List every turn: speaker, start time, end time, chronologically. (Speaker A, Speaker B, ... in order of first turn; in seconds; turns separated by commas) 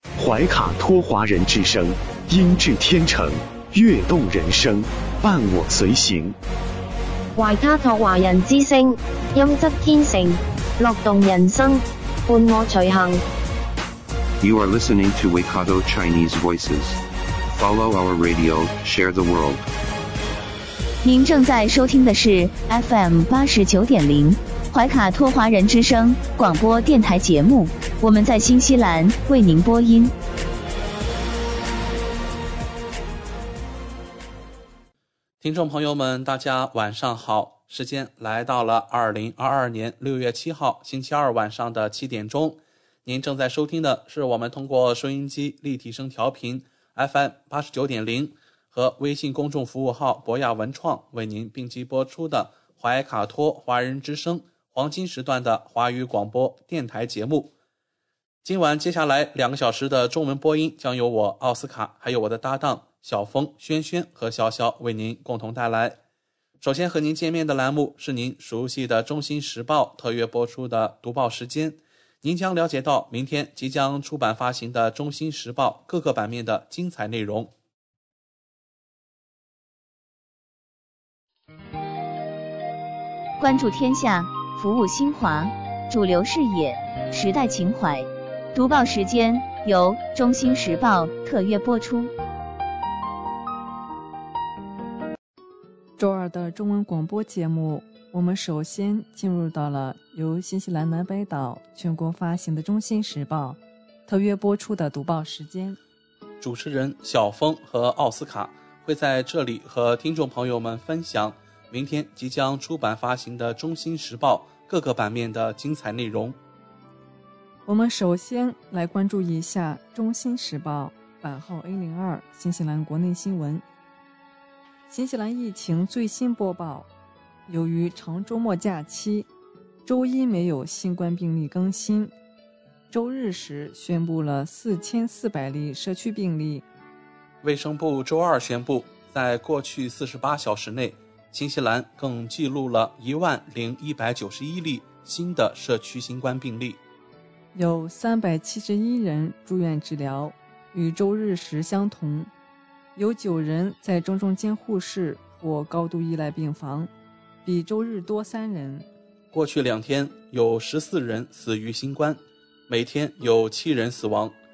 Speaker A: 0.2-6.4, Speaker B: 7.3-13.2, Speaker C: 14.4-17.0, Speaker C: 17.5-19.6, Speaker D: 21.0-30.1, Speaker E: 35.4-57.5, Speaker E: 58.4-66.0, Speaker E: 66.6-77.5, Speaker D: 83.4-92.1, Speaker F: 96.0-105.8, Speaker E: 106.4-116.4, Speaker F: 117.7-123.6, Speaker F: 124.9-126.9, Speaker F: 127.5-129.3, Speaker F: 129.8-132.1, Speaker F: 132.9-136.6, Speaker E: 137.4-146.8, Speaker F: 147.5-152.3, Speaker F: 152.9-156.9, Speaker F: 157.4-158.9, Speaker E: 159.3-164.3